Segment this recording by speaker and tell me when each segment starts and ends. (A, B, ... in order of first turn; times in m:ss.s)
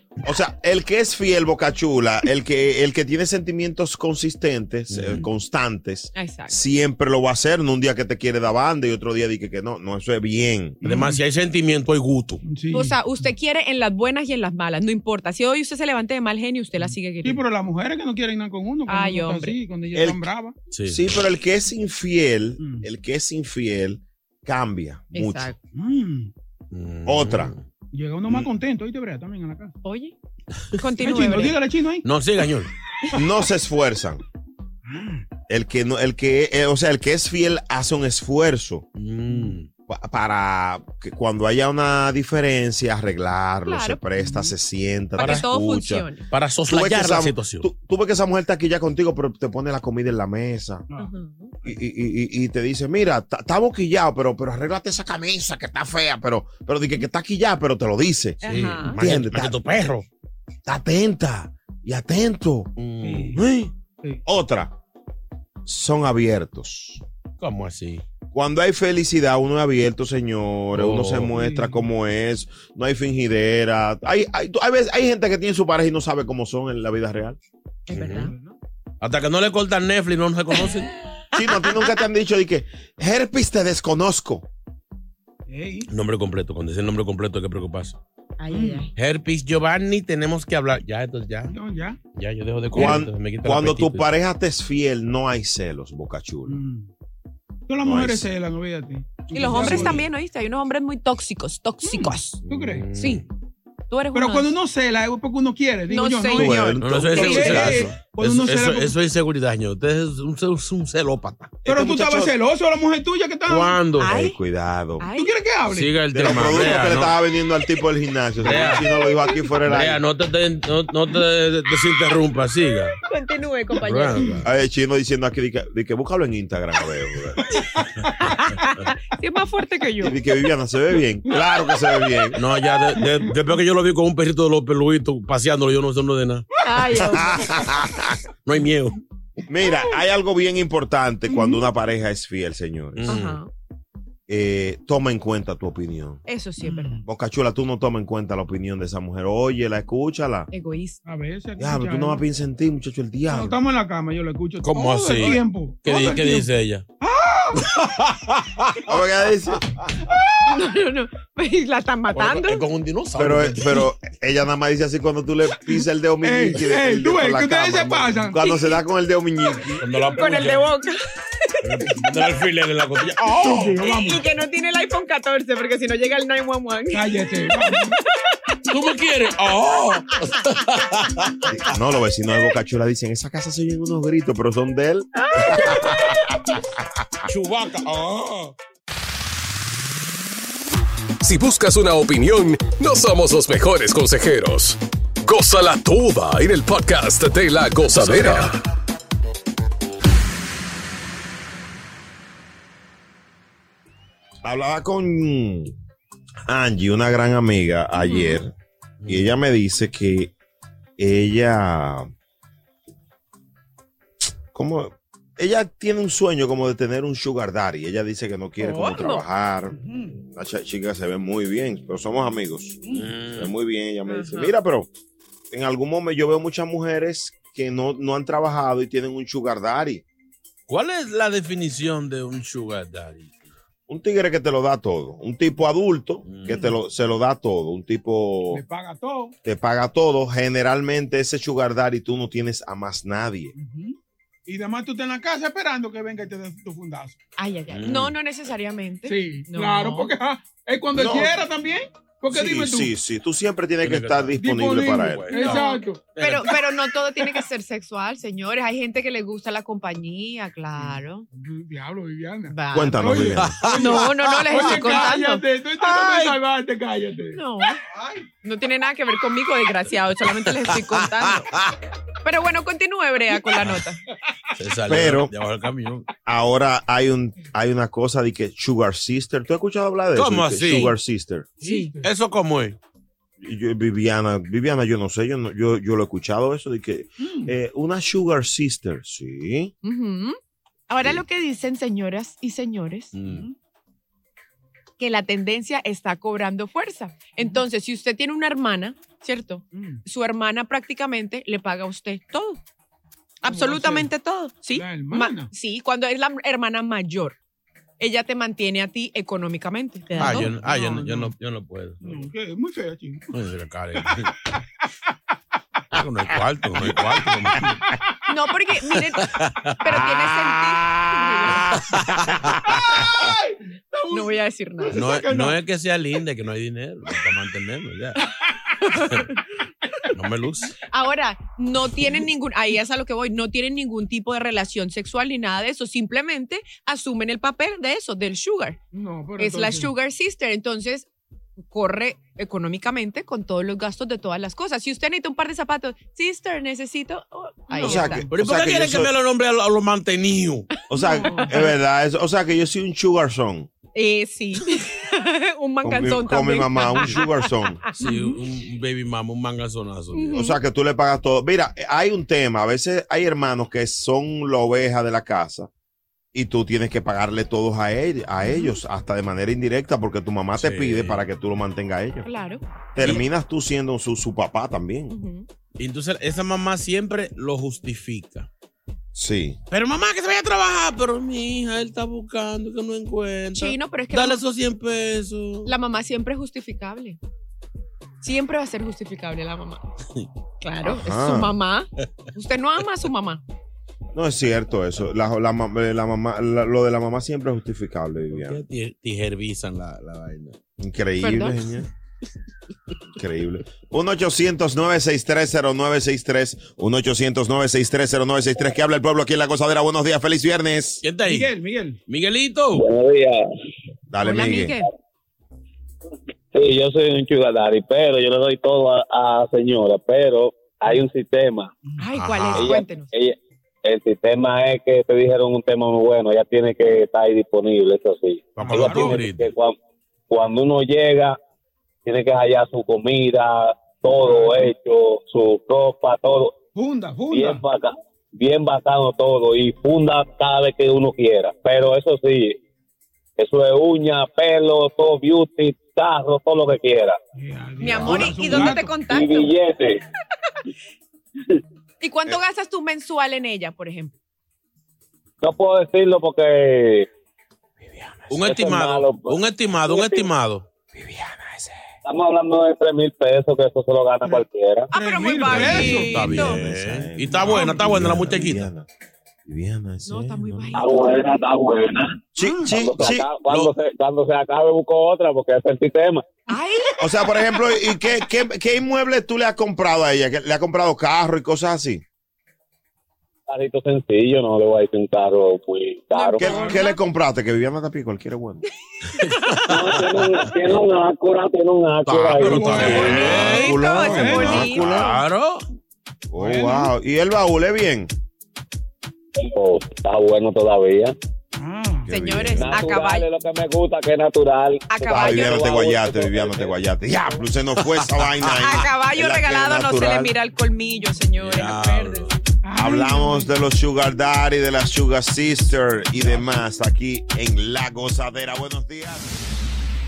0:00.2-0:10.8 A
0:04.9-0:05.3 B
0:06.1-0:06.6 C
0:10.8-0:11.2 D
0:10.8-0:12.4 B
0:12.4-0:13.0 D
0:12.7-0:17.4 C
0:16.8-0:20.6 D
0:18.9-0:19.6 C
0:19.9-0:20.3 A
0:20.7-0:21.1 B
0:20.9-0:25.5 A
0:22.6-0:22.9 D
0:25.1-0:25.6 C
0:25.7-0:26.3 D
0:26.7-0:27.6 B
0:27.0-0:27.5 A
0:27.9-0:29.7 D
0:29.8-0:30.1 C
0:30.8-0:31.6 C
0:31.0-0:32.1 D
0:32.0-0:32.7 B
0:33.1-0:34.2 A
0:34.8-0:35.2 D
0:35.5-0:38.9 A
0:38.9-0:39.7 B
0:39.3-0:39.6 D
0:39.9-0:46.1 A
0:43.6-0:44.5 C
0:44.2-0:44.5 D
0:45.2-0:46.2 C
0:45.2-0:45.5 B
0:46.3-0:47.7 B
0:46.7-0:50.8 A
0:51.0-0:51.5 C
0:51.6-0:59.7 A
0:58.4-0:59.0 C
0:58.4-1:00.0 B
1:00.6-1:02.8 A
1:02.8-1:03.4 B
1:03.0-1:03.4 D
1:03.3-1:03.7 A
1:04.2-1:04.7 A
1:05.6-1:07.0 A
1:07.4-1:08.0 B
1:08.3-1:17.4 A
1:10.7-1:11.3 B
1:11.3-1:11.8 D
1:17.9-1:18.3 C
1:17.9-1:18.3 B
1:18.1-1:18.6 D
1:19.0-1:20.9 B
1:21.3-1:24.4 A
1:21.4-1:21.9 C
1:25.5-1:25.9 D
1:25.9-1:28.0 B
1:28.4-1:28.9 C
1:28.5-1:28.9 D
1:28.9-1:31.6 B
1:31.5-1:32.0 D
1:32.1-1:34.1 B
1:32.7-1:33.0 D
1:32.7-1:36.6 A
1:36.5-1:36.9 D
1:37.7-1:40.0 D
1:37.8-1:38.3 A
1:39.3-1:42.4 C
1:39.5-1:40.0 B
1:39.6-1:39.9 A
1:41.8-1:42.9 D
1:42.4-1:43.2 B
1:42.9-1:43.2 C
1:43.9-1:44.5 C
1:44.1-1:49.0 D
1:45.9-1:47.6 C
1:46.3-1:47.9 A
1:46.8-1:51.6 B
1:51.6-1:52.4 A
1:51.6-1:53.8 D
1:53.4-1:54.2 B
1:54.0-1:54.4 C
1:54.0-1:55.1 A
1:55.0-1:55.4 C
1:55.1-1:56.0 D
1:55.6-1:57.2 B
1:56.1-2:00.0 A
1:58.4-1:58.9 B
1:58.5-1:59.4 C
1:59.6-2:02.9 B
2:03.0-2:04.3 C
2:03.8-2:04.5 B
2:04.4-2:07.4 A
2:08.2-2:10.2 C
2:10.0-2:12.4 A
2:12.3-2:16.4 B
2:13.0-2:13.3 D
2:16.6-2:17.6 C
2:16.9-2:18.2 A
2:18.4-2:19.0 B
2:19.5-2:23.1 A
2:19.6-2:19.9 C
2:21.3-2:21.7 D
2:22.9-2:23.4 B
2:23.1-2:23.5 C
2:24.3-2:26.2 A
2:26.3-2:27.0 C
2:26.6-2:27.0 D
2:27.0-2:30.5 A
2:30.5-2:31.0 C
2:31.0-2:32.2 D
2:31.6-2:33.6 A
2:33.3-2:36.5 D
2:34.6-2:36.8 B
2:37.0-2:37.8 D
2:37.6-2:39.0 B
2:38.9-2:39.6 A
2:40.0-2:40.5 D
2:40.4-2:42.6 C
2:42.1-2:43.9 B
2:43.1-2:49.8 A
2:46.2-2:48.5 D
2:48.4-2:48.8 C
2:49.8-2:50.7 B
2:50.1-2:51.1 C
2:51.6-2:53.8 B
2:53.2-2:54.2 D
2:53.7-2:57.1 C
2:56.9-2:58.0 D
2:58.7-3:01.3 B
3:01.5-3:06.6 A
3:05.2-3:05.9 C
3:07.3-3:08.5 B
3:11.2-3:18.6 E
3:24.4-3:25.7 A
3:26.5-3:28.5 A
3:28.0-3:28.4 C
3:29.0-3:29.3 B
3:29.0-3:30.3 A
3:31.0-3:32.1 A
3:34.5-3:44.9 A
3:38.6-3:39.2 C
3:39.7-3:40.2 D
3:42.8-3:43.1 D
3:42.9-3:43.5 B
3:44.1-3:44.5 C
3:45.5-3:50.0 A
3:50.7-3:53.4 B
3:53.9-3:58.6 A
3:56.2-3:56.7 B
3:58.5-3:59.3 D
3:59.4-4:03.5 A
4:03.5-4:07.2 D
4:07.4-4:10.1 C
4:07.7-4:08.2 B
4:09.0-4:12.9 D
4:11.0-4:11.4 A
4:12.3-4:15.3 A
4:13.8-4:16.7 B
4:14.4-4:16.1 D
4:15.3-4:21.2 C
4:20.8-4:28.3 D
4:22.5-4:26.3 C
4:22.7-4:23.6 A
4:23.2-4:25.0 B
4:27.3-4:27.8 C
4:28.4-4:31.5 C
4:30.7-4:31.6 B
4:32.2-4:34.0 C
4:34.6-4:36.1 B
4:34.9-4:35.3 A
4:36.2-4:41.5 A
4:40.1-4:41.0 B
4:41.6-4:42.1 D
4:41.6-4:41.9 C
4:42.0-4:42.8 B
4:43.4-4:49.7 A
4:47.2-4:47.5 D
4:49.8-4:50.4 C
4:50.9-4:53.1 C
4:53.1-4:53.5 B
4:53.2-4:53.5 D
4:55.0-5:02.6 C
4:59.7-5:00.0 D
5:03.4-5:07.4 C
5:03.4-5:04.1 D
5:04.7-5:05.5 D
5:08.0-5:10.5 C
5:10.2-5:11.3 D
5:10.2-5:12.3 B
5:12.0-5:13.4 D
5:13.3-5:14.3 B
5:15.9-5:17.8 B
5:17.8-5:18.2 D
5:18.3-5:21.7 C
5:19.0-5:19.8 B
5:19.8-5:22.5 A
5:21.7-5:22.6 B
5:22.7-5:25.6 D
5:24.1-5:25.1 C
5:24.9-5:28.2 B
5:28.2-5:28.8 D
5:28.8-5:29.4 C
5:30.1-5:30.7 B
5:30.9-5:38.8 C
5:38.9-5:39.9 D
5:39.4-5:41.1 C
5:41.7-5:48.2 C
5:47.7-5:48.3 D
5:47.8-5:49.1 A
5:48.3-5:50.7 B
5:50.8-5:51.8 C
5:50.9-5:53.7 A
5:51.1-5:51.5 D
5:53.9-5:57.5 C
5:55.8-5:57.8 A
5:57.9-6:00.4 B
6:00.1-6:00.6 C
6:00.3-6:05.7 A
6:06.3-6:12.3 A
6:08.4-6:08.8 C
6:10.6-6:11.3 B
6:12.2-6:12.6 C
6:12.9-6:15.1 A
6:13.0-6:13.2 B
6:15.1-6:15.5 C
6:15.8-6:18.5 B
6:19.1-6:19.6 A
6:19.7-6:25.7 B
6:23.5-6:24.4 C
6:25.6-6:27.2 C
6:28.2-6:29.8 C
6:30.6-6:33.4 C
6:30.8-6:31.5 A
6:34.1-6:38.6 A
6:38.3-6:40.6 B
6:40.8-6:41.9 A
6:41.2-6:41.6 C
6:43.2-6:51.0 A
6:51.0-6:51.5 B
6:51.2-6:52.0 D
6:52.1-6:52.8 B
6:52.7-6:53.5 F
6:54.1-6:54.8 A
6:54.2-6:54.9 C
6:56.5-7:01.7 F
7:02.0-7:03.1 C
7:02.1-7:02.8 B
7:02.5-7:09.7 F
7:08.6-7:09.5 B
7:08.6-7:09.2 D
7:10.3-7:11.4 F
7:12.0-7:16.5 F
7:14.2-7:14.7 D
7:16.8-7:17.6 D
7:17.3-7:22.6 F
7:23.4-7:27.2 F
7:27.4-7:29.0 D
7:27.8-7:29.5 C
7:28.5-7:30.0 F
7:32.0-7:34.1 C
7:35.4-7:37.1 F
7:38.3-7:40.7 B
7:38.3-7:40.3 F
7:42.0-7:44.9 F
7:44.9-7:46.6 C
7:44.9-7:46.2 D
7:45.5-7:48.7 B
7:46.1-7:48.9 A
7:49.4-7:50.7 A
7:50.0-7:51.0 C
7:50.7-7:56.2 F
7:52.4-7:53.3 A
7:52.4-7:52.7 D
7:53.4-7:53.7 B
7:56.5-7:57.5 C
7:57.0-8:02.0 A
8:03.5-8:06.6 F
8:06.1-8:07.0 C
8:06.4-8:08.6 A
8:06.5-8:06.8 D
8:09.1-8:10.4 B
8:09.7-8:13.3 F
8:12.1-8:15.6 B
8:12.4-8:14.6 D
8:12.4-8:15.2 A
8:13.0-8:15.1 C
8:16.3-8:18.1 A
8:16.4-8:16.9 D
8:19.4-8:21.1 F
8:21.6-8:22.1 D
8:22.1-8:23.2 C
8:22.1-8:22.8 A
8:22.6-8:26.8 F
8:24.9-8:25.7 C
8:25.1-8:30.3 A
8:28.6-8:32.3 C
8:31.4-8:32.4 B
8:32.6-8:33.5 D
8:32.8-8:39.3 A